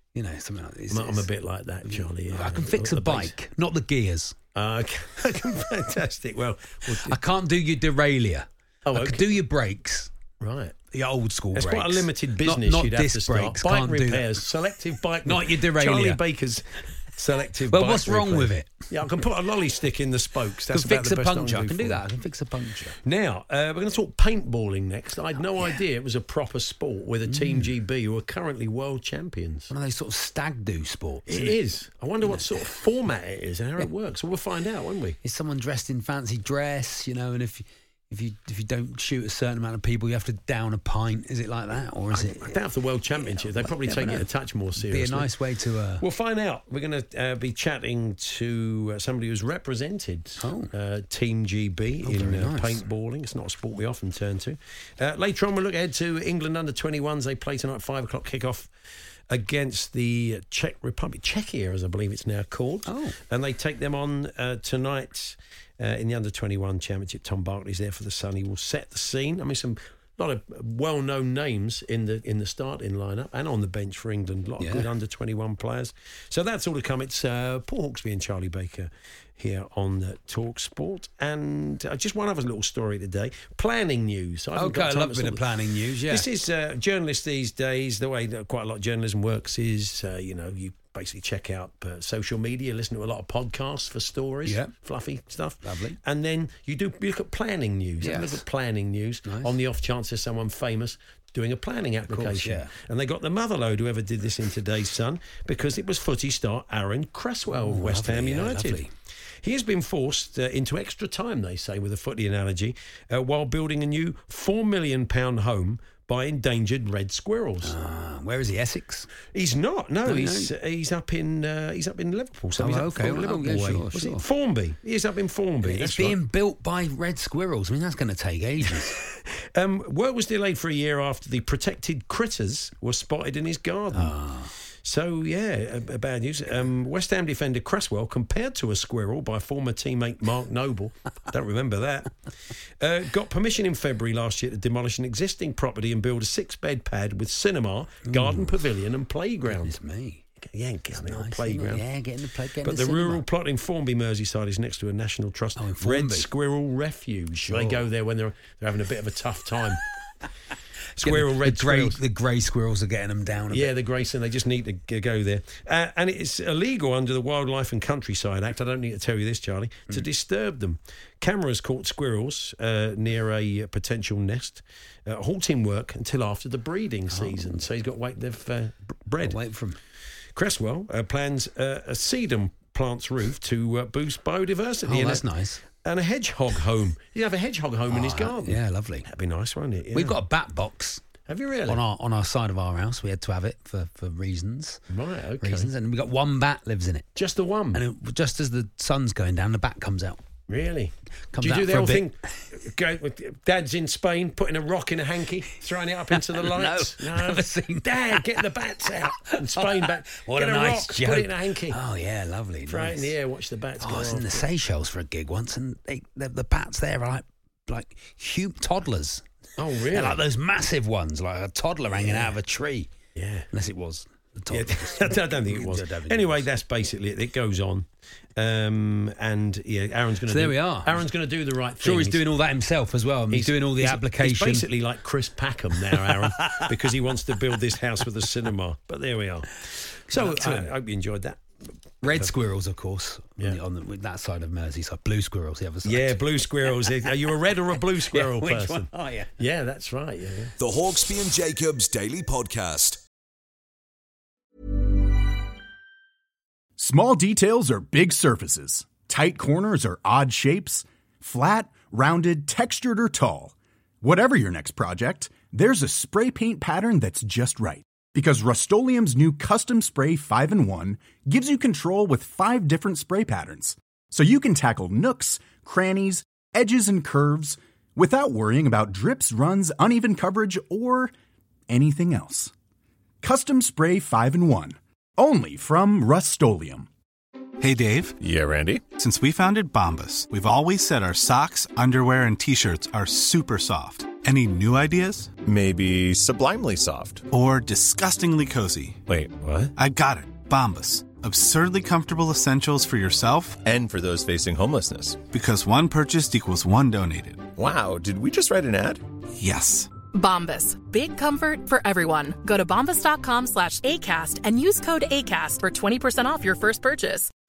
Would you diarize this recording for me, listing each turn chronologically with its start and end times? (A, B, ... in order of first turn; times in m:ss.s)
0:00.1-0:01.3 A
0:00.9-0:03.3 B
0:01.8-0:04.4 A
0:04.5-0:07.2 B
0:07.0-0:10.1 A
0:08.8-0:09.3 B
0:10.4-0:10.8 B
0:10.9-0:14.4 A
0:11.5-0:22.0 B
0:15.2-0:16.2 A
0:17.7-0:18.9 A
0:20.7-0:23.0 A
0:23.0-0:29.7 B
0:27.2-0:27.7 A
0:29.7-0:31.6 A
0:31.3-0:35.2 B
0:32.2-0:32.7 A
0:35.2-0:42.6 A
0:42.1-0:45.3 B
0:43.1-0:46.0 A
0:46.0-0:58.7 B
0:50.4-0:50.7 A
0:52.0-0:52.8 A
0:59.3-1:25.4 B
1:02.8-1:03.2 A
1:14.6-1:14.9 A
1:24.5-1:26.3 A
1:26.1-1:48.8 B
1:34.4-1:34.7 A
1:35.6-1:36.0 A
1:38.0-1:38.4 A
1:39.2-1:39.5 A
1:42.1-1:42.7 A
1:47.6-1:48.9 A
1:49.4-1:57.7 B
1:57.6-1:59.1 A
1:59.3-2:06.2 B
2:00.0-2:00.5 A
2:02.6-2:04.3 A
2:05.6-2:09.0 A
2:09.5-2:14.1 B
2:13.9-2:14.5 A
2:14.8-2:22.2 B
2:22.8-2:29.8 B
2:28.0-2:28.6 A
2:29.4-2:30.2 A
2:30.4-2:31.8 B
2:31.0-2:33.2 A
2:32.6-2:39.8 B
2:35.6-2:36.3 A
2:37.4-2:37.9 A
2:41.0-2:42.0 B
2:41.0-2:43.7 A
2:43.5-2:59.4 B
2:57.1-2:57.6 A
2:59.2-2:59.8 A
3:00.3-3:05.2 B
3:04.8-3:05.6 A
3:05.7-3:10.2 B
3:07.9-3:09.1 A
3:09.9-3:11.0 A
3:11.3-3:11.8 B
3:11.7-3:14.8 A
3:14.9-3:15.7 B
3:15.4-3:17.1 A
3:17.2-3:17.8 B
3:17.7-3:20.2 A
3:20.5-3:31.8 B
3:21.3-3:22.1 A
3:26.2-3:28.5 A
3:29.1-3:33.1 A
3:32.7-3:34.4 B
3:33.8-3:39.2 A
3:39.6-3:40.2 B
3:39.9-3:42.9 A
3:41.9-3:42.3 B
3:43.2-3:43.5 B
3:43.5-3:46.4 A
3:44.5-3:52.2 B
3:50.3-3:51.0 A
3:51.8-3:54.7 A
3:53.3-4:01.4 B
3:55.8-3:56.6 A
4:00.1-4:00.7 A
4:02.0-4:09.3 A
4:02.0-4:02.3 B
4:05.8-4:10.5 B
4:10.6-4:13.0 C
4:16.8-4:41.1 D
4:41.7-4:42.5 D
4:43.2-4:46.9 D
4:47.6-4:48.2 E
4:48.2-4:48.9 F
4:48.9-4:55.3 E
4:55.4-4:57.2 F
4:57.3-4:59.0 E
4:59.1-4:59.7 F
4:59.8-5:03.6 E
5:03.6-5:05.2 F
5:05.3-5:07.5 E
5:07.5-5:09.0 F
5:09.4-5:09.9 E
5:10.1-5:17.3 G